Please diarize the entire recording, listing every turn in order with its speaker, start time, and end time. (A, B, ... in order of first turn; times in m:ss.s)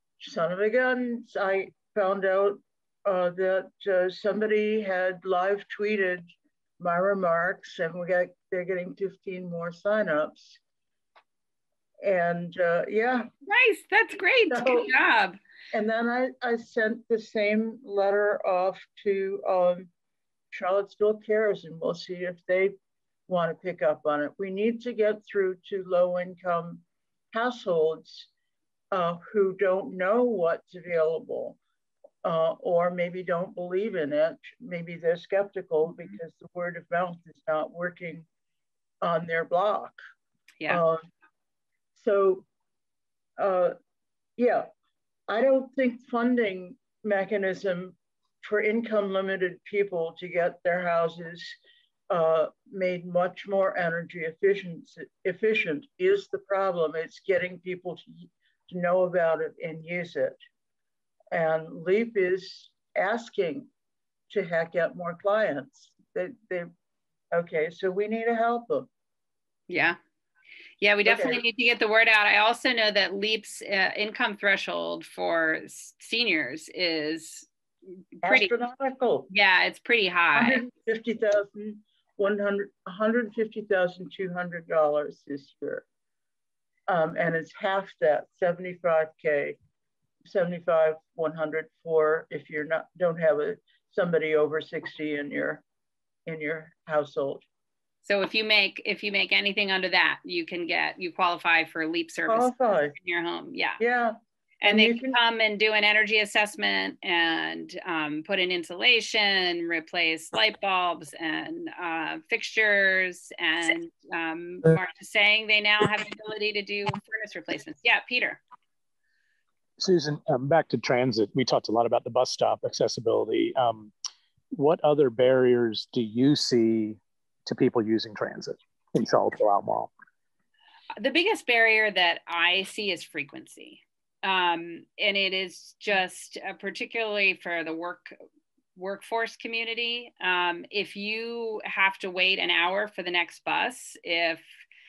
0:00.2-0:10.6 A
0:12.0-0:13.3 A
0:13.4-0:15.4 B
0:14.5-0:14.9 A
0:15.7-0:19.9 A
0:20.5-0:22.8 A
0:23.3-0:28.3 A
0:28.9-0:31.6 A
0:32.2-0:38.3 A
0:39.0-0:40.0 A
0:40.7-0:41.0 A
0:42.0-0:42.5 A
0:43.4-0:43.8 A
0:44.4-0:44.7 A
0:45.3-0:51.6 A
0:52.1-1:00.4 A
1:01.3-1:03.7 A
1:04.3-1:06.7 A
1:07.3-1:08.9 A
1:09.7-1:10.0 B
1:10.8-1:17.5 B
1:11.0-1:11.4 A
1:18.2-1:18.5 B
1:18.2-1:19.3 A
1:19.3-1:20.6 B
1:20.3-1:25.8 A
1:26.9-1:29.6 A
1:30.3-1:35.6 A
1:36.3-1:37.4 A
1:38.0-1:43.8 B
1:42.3-1:43.0 A
1:43.8-1:45.2 A
1:44.6-1:58.4 B
1:59.8-2:03.9 C
2:04.6-2:09.9 C
2:11.0-2:18.2 B
2:18.8-2:24.4 B